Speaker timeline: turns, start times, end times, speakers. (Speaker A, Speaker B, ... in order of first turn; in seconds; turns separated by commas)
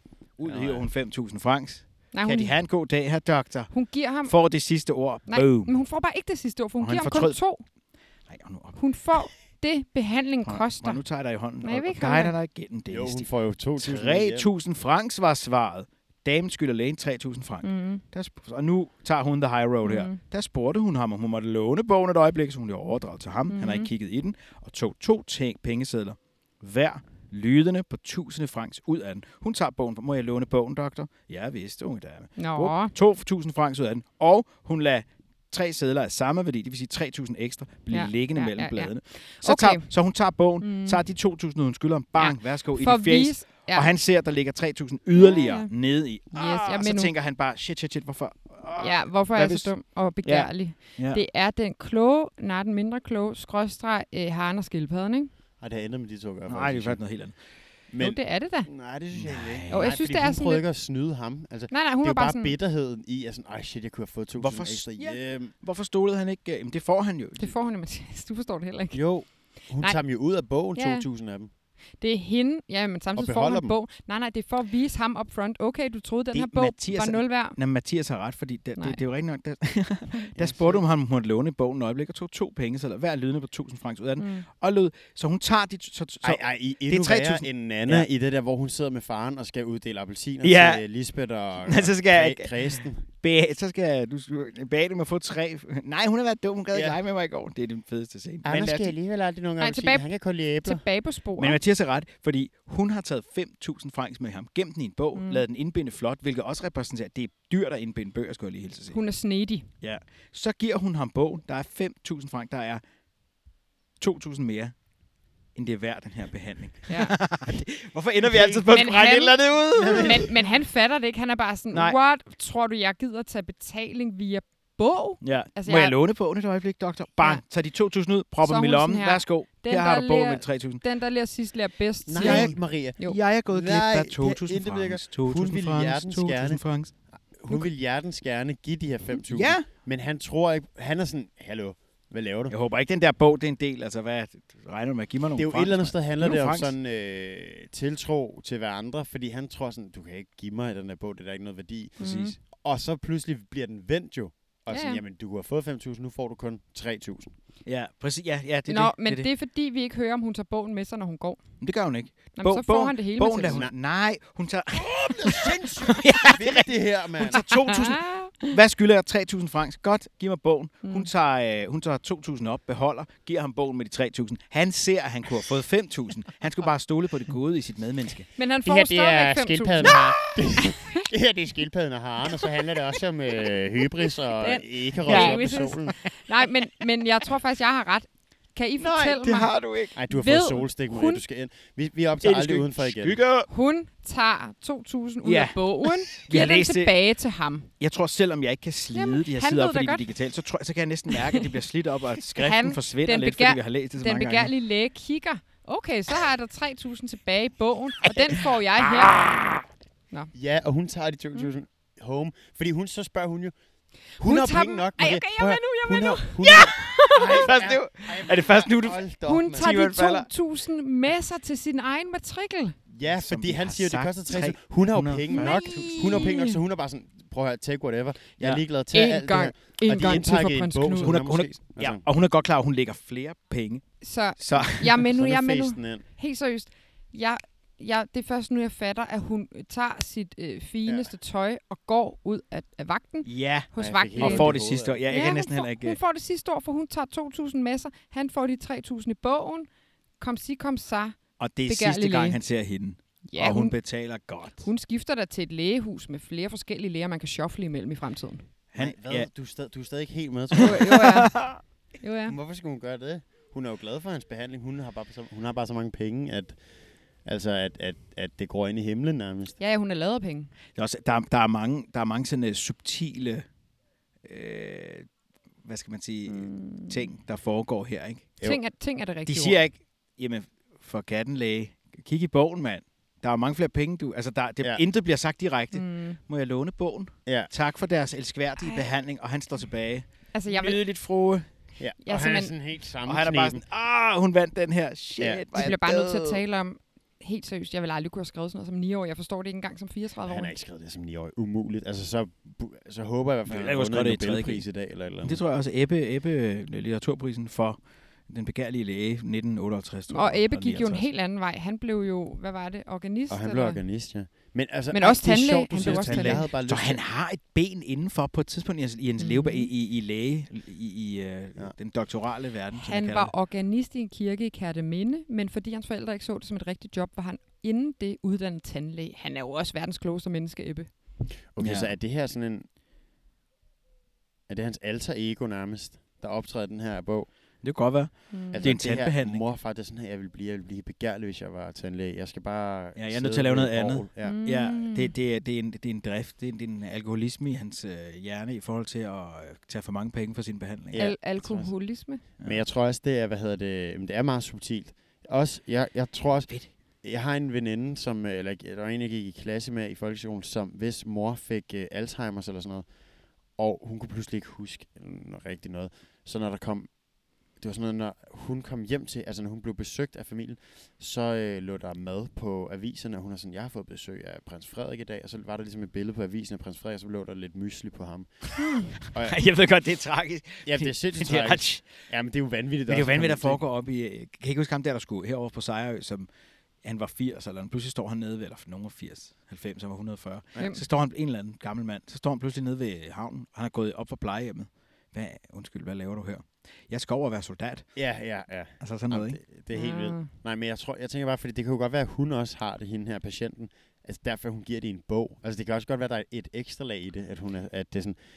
Speaker A: 0.4-5.7, Speaker B: 0.5-0.9, Speaker C: 2.1-2.5, Speaker C: 3.7-4.3, Speaker C: 5.3-7.6, Speaker A: 6.8-7.4, Speaker A: 8.3-8.8, Speaker C: 8.8-11.0, Speaker A: 10.4-51.2, Speaker C: 11.6-12.3, Speaker B: 12.9-14.5, Speaker C: 17.6-18.0, Speaker C: 19.8-20.2, Speaker C: 23.5-23.9, Speaker C: 32.4-32.9, Speaker C: 37.9-39.9, Speaker C: 40.6-41.0, Speaker C: 42.2-43.9, Speaker C: 45.2-45.7, Speaker C: 46.3-47.1, Speaker C: 48.8-55.3, Speaker B: 55.6-57.0, Speaker A: 56.5-57.4, Speaker B: 57.9-65.5, Speaker C: 58.0-58.7, Speaker A: 59.1-59.9, Speaker C: 59.7-60.6, Speaker C: 61.7-62.5, Speaker A: 64.4-67.6, Speaker C: 67.4-70.0, Speaker B: 68.9-71.5, Speaker C: 70.7-71.1, Speaker C: 72.0-77.6, Speaker B: 73.2-73.8, Speaker A: 76.3-88.1, Speaker B: 80.3-80.8, Speaker C: 84.2-84.5, Speaker B: 86.2-93.0, Speaker A: 90.4-90.8, Speaker A: 91.6-98.9, Speaker B: 96.7-97.0, Speaker B: 98.5-100.8, Speaker C: 99.6-100.1, Speaker C: 100.6-101.6, Speaker A: 101.4-109.0, Speaker C: 105.2-105.4, Speaker C: 108.9-109.7, Speaker A: 109.8-112.8, Speaker A: 114.0-114.7, Speaker A: 115.5-120.3, Speaker C: 116.9-117.2, Speaker C: 118.6-126.0, Speaker B: 119.8-120.3, Speaker A: 121.7-122.0, Speaker A: 125.2-130.8, Speaker C: 128.4-133.2, Speaker B: 132.1-142.6, Speaker A: 132.2-136.9, Speaker A: 139.3-139.7, Speaker A: 142.5-146.7, Speaker B: 145.4-157.3, Speaker A: 152.0-152.4, Speaker C: 152.0-152.4, Speaker C: 154.7-155.0, Speaker A: 157.7-159.3, Speaker C: 158.7-161.4, Speaker A: 161.6-178.3, Speaker C: 162.4-163.6, Speaker B: 163.4-163.8, Speaker B: 164.9-167.4, Speaker C: 167.2-168.5, Speaker C: 170.8-171.1, Speaker C: 178.4-181.0, Speaker B: 178.7-186.0, Speaker C: 184.3-191.2, Speaker A: 185.1-186.1, Speaker A: 188.8-190.0, Speaker B: 189.9-193.2, Speaker A: 192.2-193.5, Speaker C: 193.5-197.7, Speaker A: 195.2-197.0, Speaker A: 197.8-204.5, Speaker C: 198.9-200.1, Speaker C: 202.3-209.3, Speaker A: 209.2-209.6, Speaker B: 210.3-213.5, Speaker C: 214.2-217.5, Speaker B: 214.2-219.8, Speaker A: 217.0-220.3, Speaker C: 219.3-222.8, Speaker B: 222.9-232.0, Speaker A: 223.1-226.3, Speaker C: 225.3-226.5, Speaker A: 228.4-228.6, Speaker C: 228.9-231.2, Speaker A: 231.0-235.0, Speaker C: 234.0-244.6, Speaker B: 235.1-236.1, Speaker B: 240.9-241.1, Speaker A: 243.2-246.0, Speaker B: 243.8-245.0, Speaker C: 245.1-252.4, Speaker A: 251.4-254.7, Speaker C: 253.3-253.8, Speaker C: 254.6-258.5, Speaker A: 258.7-259.3, Speaker B: 258.8-261.0, Speaker A: 260.6-261.6, Speaker C: 260.6-261.5, Speaker C: 262.0-262.4, Speaker B: 262.3-266.6, Speaker B: 267.2-269.6, Speaker C: 269.6-270.5, Speaker A: 270.8-273.4, Speaker A: 274.2-275.1, Speaker A: 275.6-278.3, Speaker C: 276.3-277.1, Speaker C: 278.4-279.6, Speaker A: 279.3-291.5, Speaker C: 285.7-286.2, Speaker B: 287.3-287.5, Speaker C: 288.6-288.9, Speaker C: 290.3-290.8, Speaker B: 291.8-293.6, Speaker C: 292.0-292.5, Speaker A: 293.1-296.4, Speaker B: 295.2-295.4, Speaker C: 295.6-300.6, Speaker B: 300.2-305.4, Speaker A: 303.5-304.6, Speaker A: 305.2-311.1, Speaker C: 310.1-313.8, Speaker B: 313.3-317.0, Speaker C: 314.9-316.4, Speaker A: 315.8-323.3, Speaker C: 319.2-319.7, Speaker C: 322.7-330.9, Speaker B: 331.5-332.6, Speaker A: 331.6-331.9, Speaker B: 334.5-337.3, Speaker A: 337.6-339.4, Speaker C: 338.3-338.7, Speaker B: 338.5-344.4, Speaker A: 343.0-351.1, Speaker C: 344.2-345.1, Speaker B: 350.9-362.9, Speaker C: 351.0-352.2, Speaker B: 363.6-379.4, Speaker C: 378.6-378.9, Speaker A: 379.1-381.9, Speaker B: 380.6-383.6, Speaker A: 382.9-386.3, Speaker A: 386.8-398.1, Speaker B: 397.9-408.2, Speaker A: 398.8-399.4, Speaker C: 399.7-400.3